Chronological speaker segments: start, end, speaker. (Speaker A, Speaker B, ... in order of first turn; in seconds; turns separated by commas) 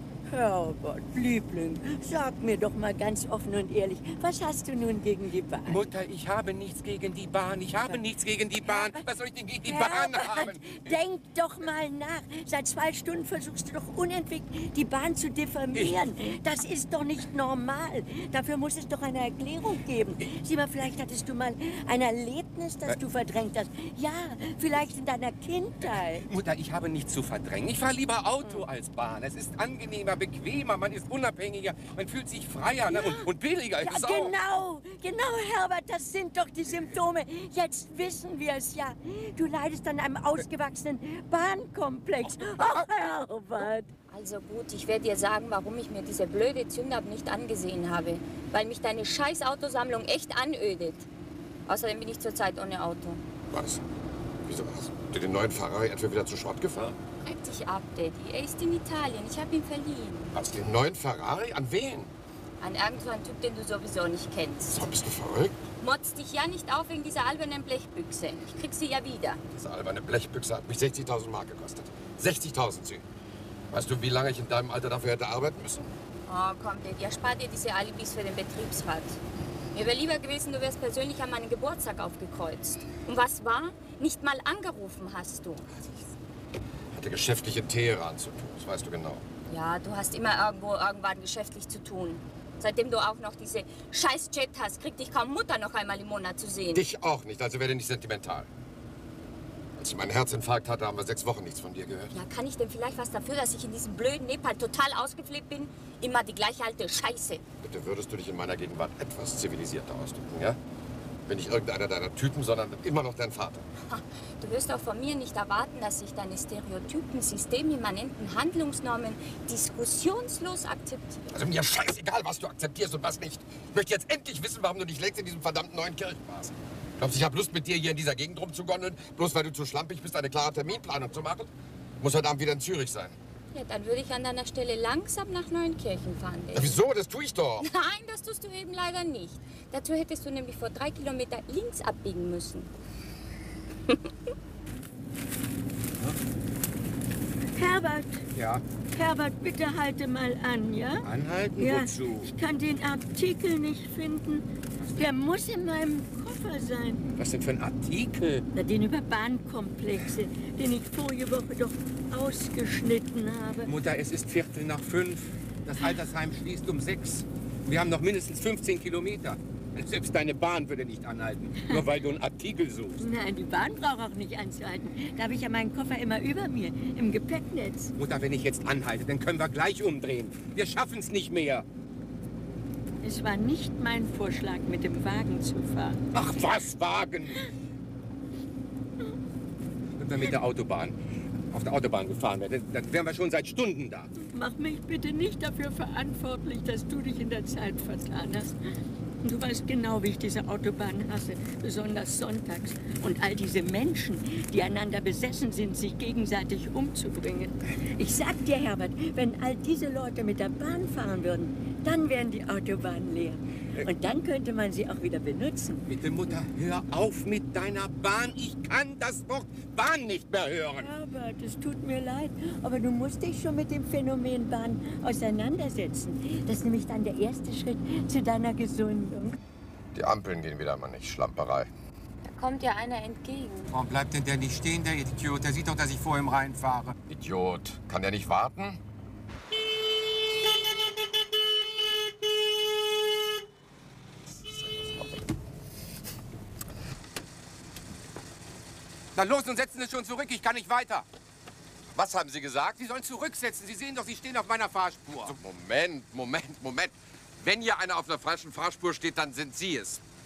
Speaker A: 0.3-5.9, Speaker B: 5.7-10.9, Speaker A: 8.6-9.1, Speaker A: 9.7-26.3, Speaker B: 26.2-34.4, Speaker A: 32.9-43.9, Speaker B: 42.3-42.9, Speaker C: 44.1-51.1, Speaker C: 51.7-53.2, Speaker D: 53.5-53.8, Speaker D: 54.5-57.0, Speaker C: 57.2-60.4, Speaker D: 60.4-62.1, Speaker C: 62.6-64.8, Speaker D: 64.7-65.6, Speaker C: 65.8-69.4, Speaker D: 69.5-73.0, Speaker D: 73.7-75.9, Speaker C: 76.3-79.2, Speaker C: 79.7-85.8, Speaker D: 86.9-89.2, Speaker C: 89.5-96.8, Speaker D: 96.7-98.5, Speaker D: 99.8-102.1, Speaker C: 102.1-107.4, Speaker D: 107.6-110.6, Speaker D: 111.3-113.7, Speaker C: 113.9-121.2, Speaker D: 121.3-133.2, Speaker C: 133.5-136.8, Speaker D: 136.5-137.7, Speaker C: 137.6-142.7, Speaker A: 147.6-148.3, Speaker B: 148.3-148.6, Speaker A: 148.9-157.1, Speaker B: 151.0-152.3, Speaker B: 157.2-158.5, Speaker A: 158.5-163.8, Speaker B: 163.7-173.0, Speaker A: 173.0-177.9, Speaker B: 178.0-181.7, Speaker A: 183.0-186.1, Speaker B: 186.1-187.5, Speaker B: 190.0-191.0, Speaker B: 191.5-194.1, Speaker A: 194.2-198.6, Speaker A: 199.2-215.9, Speaker B: 215.9-220.9, Speaker A: 220.8-229.4, Speaker D: 229.9-231.7, Speaker C: 232.2-233.7, Speaker B: 233.7-237.0, Speaker D: 237.1-238.8, Speaker B: 249.2-251.1, Speaker D: 251.9-252.8, Speaker B: 252.8-255.4, Speaker D: 255.2-260.0